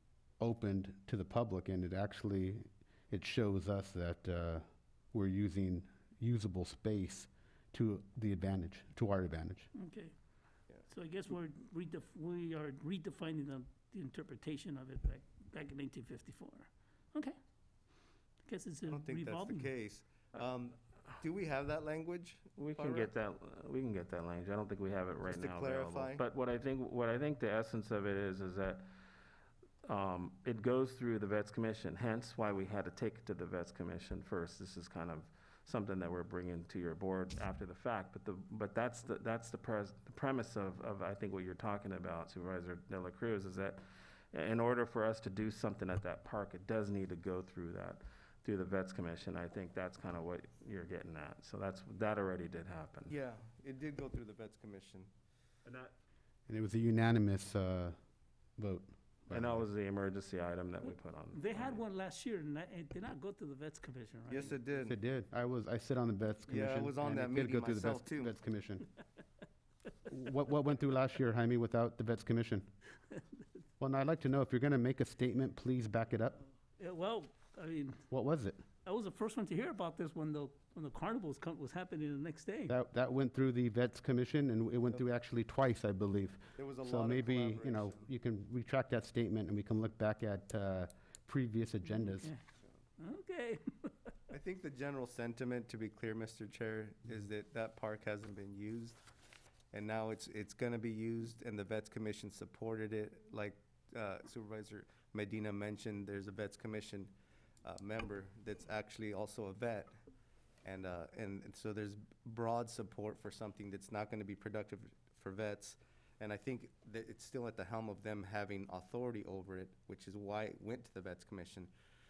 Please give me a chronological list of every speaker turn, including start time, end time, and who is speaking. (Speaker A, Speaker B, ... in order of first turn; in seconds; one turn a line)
Speaker A: 0.4-9.7
Speaker B: 9.7-10.1
Speaker B: 10.8-17.4
Speaker B: 18.5-19.7
Speaker C: 18.9-23.1
Speaker D: 22.6-28.9
Speaker C: 25.2-26.2
Speaker D: 29.8-43.8
Speaker D: 44.3-53.1
Speaker C: 53.1-55.1
Speaker D: 55.6-55.9
Speaker A: 56.5-58.0
Speaker A: 58.6-59.7
Speaker D: 59.3-61.8
Speaker B: 60.9-64.6
Speaker C: 64.3-65.0
Speaker A: 64.8-68.9
Speaker C: 66.5-68.3
Speaker A: 70.1-72.7
Speaker A: 73.8-76.4
Speaker B: 76.8-78.1
Speaker A: 78.1-78.6
Speaker B: 78.8-82.7
Speaker A: 82.7-92.3
Speaker C: 86.6-88.1
Speaker B: 91.9-92.4
Speaker B: 93.0-94.1
Speaker C: 94.3-99.0
Speaker C: 99.7-109.9
Speaker C: 110.6-121.7